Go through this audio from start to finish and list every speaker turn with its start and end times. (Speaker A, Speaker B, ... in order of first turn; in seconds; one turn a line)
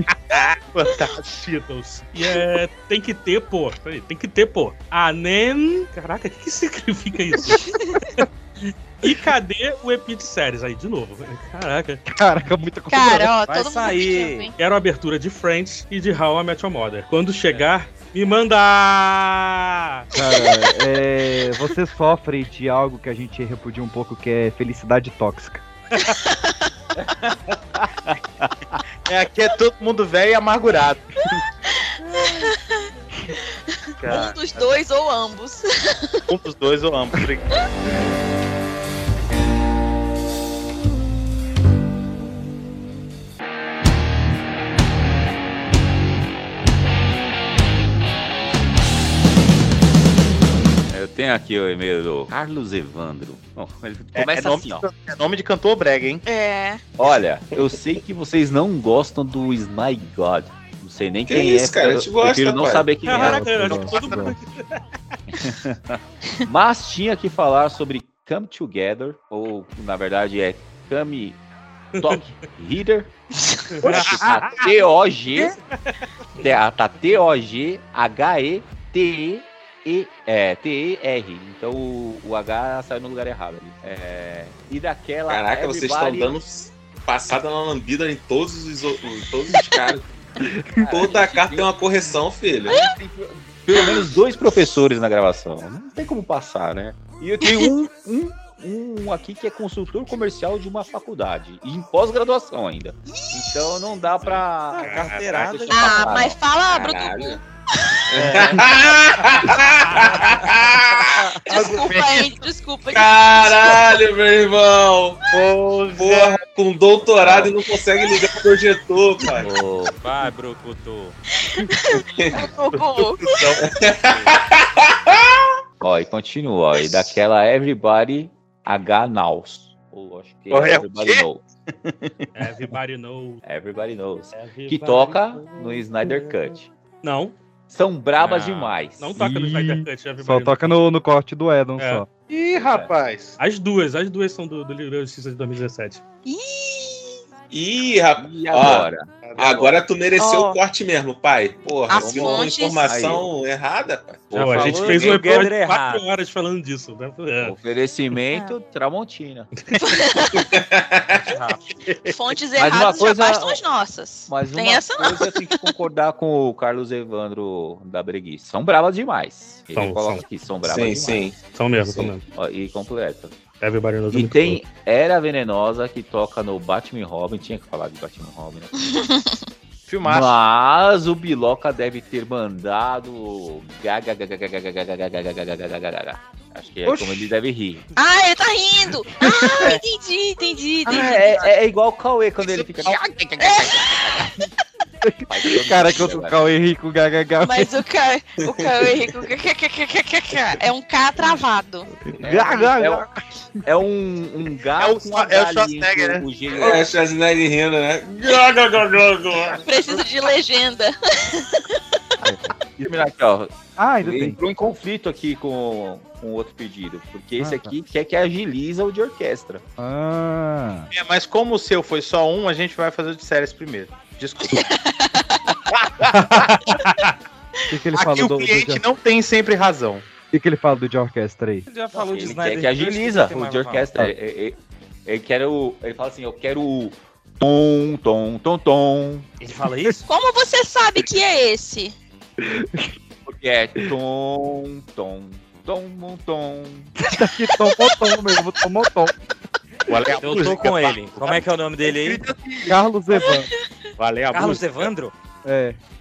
Speaker A: 0.3-1.6
Speaker B: 1.5-12.0
Speaker C: 7.7-8.0
Speaker D: 12.1-13.3
Speaker C: 12.9-14.5
Speaker E: 13.5-14.5
Speaker B: 14.6-20.1
Speaker D: 20.1-25.6
Speaker C: 25.9-26.5
Speaker F: 27.1-28.8
Speaker A: 29.1-31.1
Speaker C: 31.7-32.9
Speaker A: 34.0-34.7
Speaker C: 34.0-36.3
Speaker A: 36.3-37.6
Speaker F: 50.9-54.9
Speaker A: 54.1-56.2
Speaker C: 56.2-56.8
Speaker F: 57.0-64.3
Speaker G: 57.5-57.8
Speaker G: 61.2-63.1
Speaker B: 63.0-64.8
Speaker D: 63.6-64.4
Speaker A: 63.6-64.3
Speaker F: 65.4-71.4
Speaker F: 72.0-73.1
Speaker B: 72.0-72.2
Speaker B: 73.8-74.5
Speaker F: 73.8-75.6
Speaker B: 75.4-76.0
Speaker F: 76.4-86.4
Speaker G: 85.3-90.1
Speaker F: 90.8-91.7
Speaker G: 90.9-92.8
Speaker F: 92.6-106.4
Speaker C: 93.7-94.1
Speaker C: 97.4-97.7
Speaker E: 104.7-106.2
Speaker B: 104.8-105.6
Speaker C: 105.7-107.4
Speaker G: 106.7-107.4
Speaker G: 108.1-111.2
Speaker B: 109.9-110.3
Speaker A: 111.5-112.3
Speaker C: 111.5-113.9
Speaker G: 112.9-115.2
Speaker A: 115.3-116.4
Speaker G: 116.0-119.5
Speaker F: 117.2-117.6
Speaker F: 119.4-120.0
Speaker E: 120.0-121.2
Speaker C: 121.4-123.3
Speaker G: 122.2-122.4
Speaker G: 123.6-125.5
Speaker F: 125.8-131.4
Speaker A: 130.5-131.2
Speaker B: 132.4-133.4
Speaker F: 133.4-136.7
Speaker B: 134.3-137.4
Speaker F: 137.7-139.1
Speaker E: 138.2-138.8
Speaker B: 139.0-140.8
Speaker D: 139.2-142.1
Speaker B: 141.8-142.1
Speaker A: 142.3-143.4
Speaker B: 143.4-146.0
Speaker C: 146.3-147.2
Speaker G: 147.5-154.3
Speaker F: 148.2-149.2
Speaker A: 149.2-149.8
Speaker C: 150.2-150.6
Speaker C: 151.9-152.8
Speaker F: 152.0-153.3
Speaker F: 154.3-155.4
Speaker E: 154.3-156.0
Speaker B: 154.3-157.5
Speaker F: 157.4-159.5
Speaker B: 159.6-159.8
Speaker C: 159.8-160.5
Speaker G: 160.4-161.4
Speaker E: 161.2-161.6
Speaker A: 161.7-162.2
Speaker C: 162.1-165.7
Speaker F: 162.6-163.6
Speaker F: 164.3-171.3
Speaker B: 169.7-170.2
Speaker G: 170.6-172.1
Speaker B: 171.4-172.2
Speaker F: 172.3-173.4
Speaker B: 173.6-174.6
Speaker F: 174.1-178.8
Speaker C: 178.8-179.4
Speaker A: 179.9-180.4
Speaker F: 180.0-187.8
Speaker D: 186.8-187.3
Speaker C: 188.0-191.5
Speaker D: 189.2-189.7
Speaker F: 190.9-194.4
Speaker A: 192.4-193.7
Speaker C: 193.4-193.7
Speaker D: 195.0-197.7
Speaker F: 195.3-196.4
Speaker C: 197.4-201.9
Speaker G: 198.5-198.7
Speaker F: 202.2-203.1
Speaker D: 202.2-203.2
Speaker F: 203.7-206.9
Speaker A: 204.8-206.7
Speaker G: 206.6-209.6
Speaker C: 209.6-211.8
Speaker D: 212.2-213.1
Speaker F: 212.8-219.6
Speaker D: 213.8-214.4
Speaker D: 217.4-217.7
Speaker D: 219.8-220.9
Speaker A: 220.9-224.7
Speaker C: 224.4-225.4
Speaker A: 226.0-226.8
Speaker D: 226.1-226.6
Speaker D: 227.7-228.8
Speaker A: 227.9-230.1
Speaker D: 230.3-231.7
Speaker E: 231.7-234.0
Speaker F: 231.9-239.3
Speaker E: 239.4-240.1
Speaker C: 240.1-241.9
Speaker D: 242.4-242.9
Speaker F: 243.2-246.9
Speaker D: 247.1-249.2
Speaker C: 247.6-248.1
Speaker A: 249.9-251.4
Speaker E: 250.2-252.2
Speaker F: 251.9-252.7
Speaker D: 252.7-253.5
Speaker C: 253.2-253.4
Speaker A: 254.0-254.9
Speaker E: 254.3-255.1
Speaker D: 255.4-255.8